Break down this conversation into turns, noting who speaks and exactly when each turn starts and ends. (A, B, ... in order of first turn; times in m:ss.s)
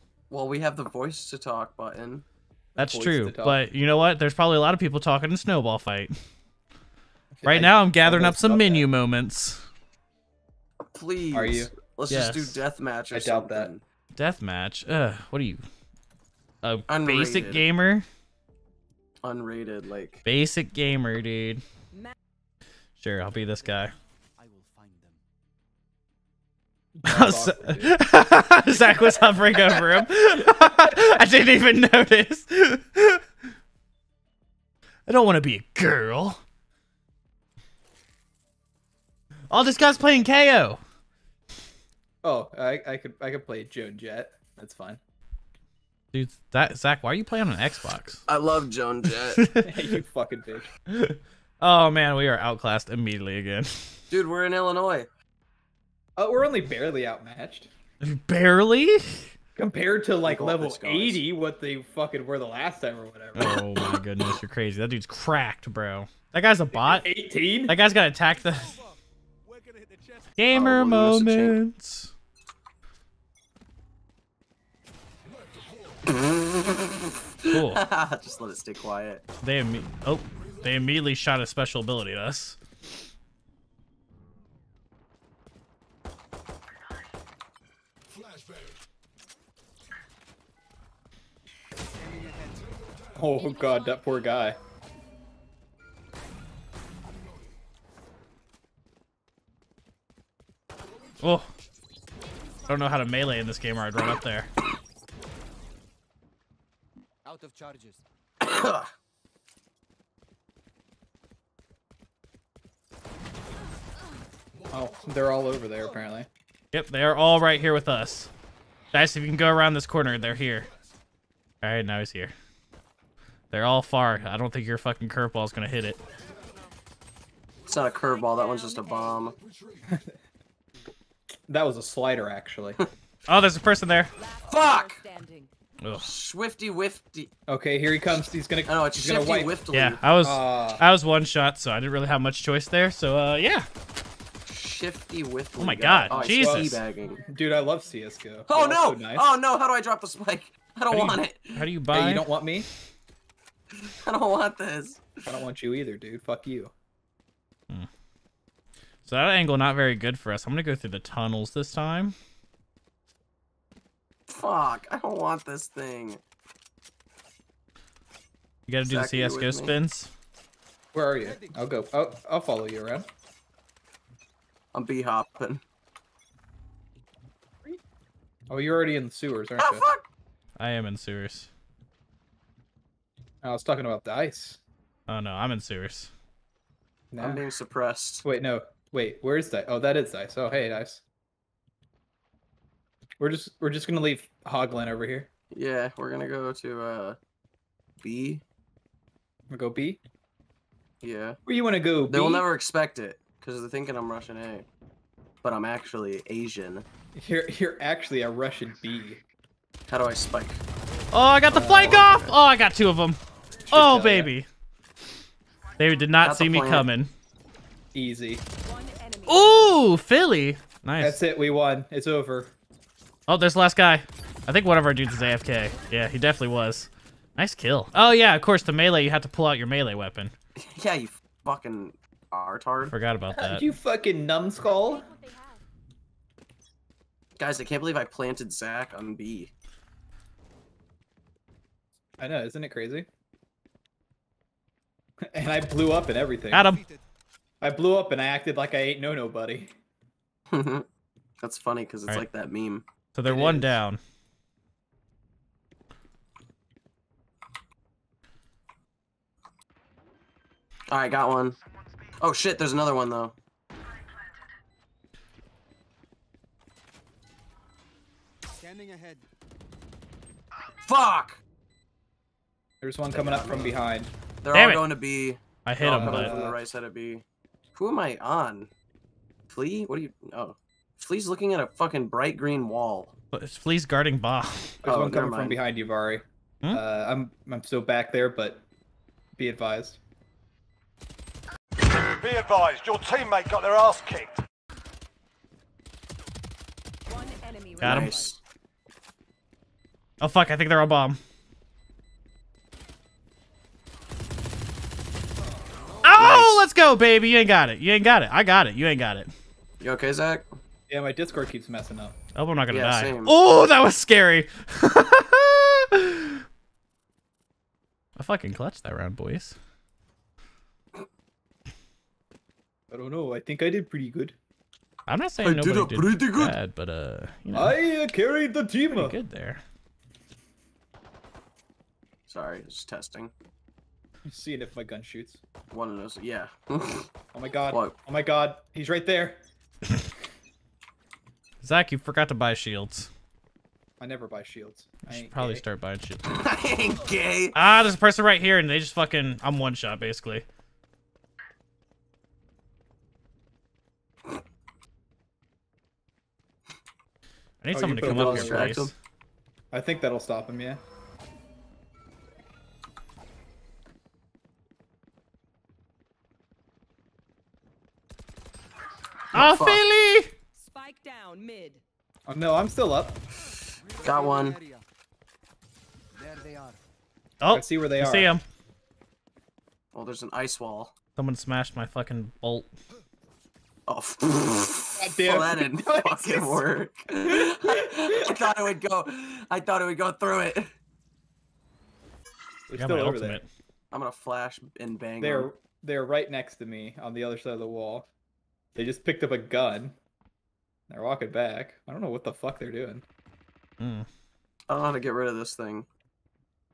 0:00.3-0:02.2 A
0:02.7-0:03.6 B
0:02.8-0:06.1 C
0:07.4-0:08.9 B
0:07.4-0:09.6 C
0:10.9-0:13.8 A
0:11.3-0:11.7 B
0:12.1-0:12.6 C
0:13.1-0:13.7 B
0:14.2-0:15.6 C
0:16.6-0:18.0 C
0:16.9-0:17.6 A
0:19.2-0:20.2 A
0:20.2-0:21.6 C
0:23.0-0:23.9 C
0:23.6-0:25.2 D
0:26.9-0:28.0 B
0:27.1-0:33.2 C
0:30.6-0:31.2 B
0:35.1-0:36.4 C
0:39.5-0:40.8 C
0:42.2-0:45.0 B
0:46.1-0:48.2 C
0:48.3-0:49.4 A
0:49.4-0:49.8 C
0:49.6-0:50.7 B
0:50.9-0:54.0 C
0:54.1-0:55.1 A
0:56.2-0:57.7 B
0:58.0-0:59.3 C
0:59.6-1:03.6 B
1:00.2-1:01.2 A
1:03.4-1:07.1 C
1:06.7-1:07.8 B
1:07.7-1:08.8 C
1:08.3-1:10.3 D
1:10.4-1:12.1 C
1:10.5-1:11.6 A
1:16.0-1:19.2 A
1:17.5-1:17.8 C
1:19.4-1:22.6 C
1:31.9-1:32.8 D
1:33.1-1:34.6 B
1:33.4-1:34.2 E
1:41.2-1:41.5 C
1:42.4-1:42.7 E
1:42.7-1:44.5 C
1:47.2-1:48.0 D
1:48.4-1:48.9 A
1:54.7-1:56.3 B
1:56.7-1:58.3 C
1:58.9-2:00.7 C
2:01.6-2:02.3 C
2:03.5-2:06.0 C
2:07.7-2:09.4 A
2:07.9-2:09.3 E
2:09.8-2:10.2 B
2:11.5-2:12.8 B
2:13.3-2:14.1 C
2:14.1-2:15.5 E
2:14.4-2:15.0 A
2:15.9-2:17.3 A
2:17.5-2:19.6 B
2:18.6-2:20.0 A
2:19.7-2:23.7 C
2:20.2-2:20.8 B
2:24.4-2:27.2 A
2:25.6-2:26.8 C
2:26.1-2:29.2 B
2:28.5-2:31.6 A
2:30.9-2:31.2 B
2:31.5-2:32.3 C
2:31.9-2:32.7 B
2:33.8-2:35.1 A
2:35.2-2:36.7 B
2:39.0-2:42.1 C
2:44.3-2:46.2 A
2:48.7-2:50.1 C
2:48.8-2:49.7 A
2:50.9-2:53.1 B
2:51.2-2:51.8 D
2:54.7-2:55.6 A
2:58.5-2:59.9 B
2:59.6-3:00.0 A
3:00.6-3:01.5 C
3:03.4-3:04.6 B
3:05.1-3:06.1 C
3:07.1-3:07.4 B
3:07.2-3:08.2 A
3:08.2-3:11.0 B
3:13.2-3:15.3 B
3:15.5-3:17.2 A
3:18.0-3:18.4 A
3:19.5-3:20.0 B
3:21.0-3:21.4 A
3:21.4-3:22.5 B
3:22.1-3:24.6 A
3:25.4-3:26.8 A
3:27.1-3:29.2 B
3:29.9-3:30.6 A
3:31.1-3:33.2 C
3:31.5-3:32.4 B
3:33.7-3:34.3 B
3:33.7-3:34.5 C
3:35.8-3:37.1 C
3:36.2-3:36.9 A
3:37.9-3:38.4 B
3:38.6-3:39.8 E
3:39.3-3:41.2 C
3:41.0-3:42.5 B
3:43.3-3:50.3 C
3:50.6-3:52.9 A
3:52.9-3:53.6 C
3:53.3-3:55.1 B
3:54.6-3:55.6 E
3:57.4-3:59.5 A
4:02.2-4:03.1 B
4:05.3-4:06.7 B
4:06.5-4:06.8 C
4:06.5-4:07.0 D
4:07.6-4:09.7 B
4:10.5-4:10.9 A
4:11.4-4:13.5 A
4:13.1-4:14.0 C
4:13.3-4:13.7 B
4:20.9-4:21.6 A
4:22.2-4:23.3 A
4:28.6-4:29.2 D
4:30.8-4:31.4 A
4:32.8-4:34.1 B
4:33.1-4:33.8 A
4:34.4-4:37.2 A
4:34.5-4:34.9 C
4:35.6-4:36.4 C
4:35.8-4:36.6 B
4:37.7-4:38.7 A
4:39.5-4:43.1 A
4:43.3-4:44.8 C
4:44.8-4:48.6 B
4:44.8-4:45.6 A
4:49.4-4:50.0 B
4:51.9-4:54.4 F
4:57.1-4:58.3 E
4:57.8-4:58.4 A
4:57.8-4:58.2 C
4:57.9-4:58.3 D
5:00.2-5:01.2 C
5:05.8-5:06.2 D
5:06.0-5:09.3 C
5:06.2-5:06.6 A
5:09.8-5:10.5 A
5:10.9-5:12.2 B
5:12.3-5:16.4 C
5:12.7-5:13.3 A
5:18.2-5:19.6 C
5:22.9-5:24.3 B
5:25.1-5:27.8 C
5:25.4-5:26.5 A
5:27.5-5:29.2 B
5:28.9-5:29.6 C
5:32.3-5:33.3 A
5:34.3-5:35.4 B
5:35.7-5:37.1 A
5:37.3-5:39.4 B
5:37.7-5:37.9 A
5:41.6-5:43.1 C
5:44.0-5:45.6 B
5:45.0-5:46.2 C
5:46.2-5:47.6 A
5:47.5-5:50.4 C
5:57.6-5:58.9 C
5:57.7-5:58.8 B
5:58.1-5:58.9 A
5:59.7-6:00.8 B
6:09.3-6:09.8 A
6:09.3-6:10.3 C
6:10.6-6:11.8 E
6:12.3-6:13.2 B
6:13.7-6:14.8 D
6:14.0-6:14.6 A
6:16.1-6:16.8 D
6:17.4-6:18.4 C
6:17.5-6:18.3 B
6:19.9-6:20.9 A
6:21.2-6:22.7 C
6:23.9-6:30.7 A
6:25.0-6:26.7 B
6:27.5-6:28.3 B
6:32.7-6:33.4 B
6:32.8-6:33.5 C
6:33.9-6:35.5 A
6:35.2-6:38.1 B
6:38.8-6:40.0 B
6:40.9-6:43.0 B
6:43.8-6:44.1 C
6:44.7-6:45.9 A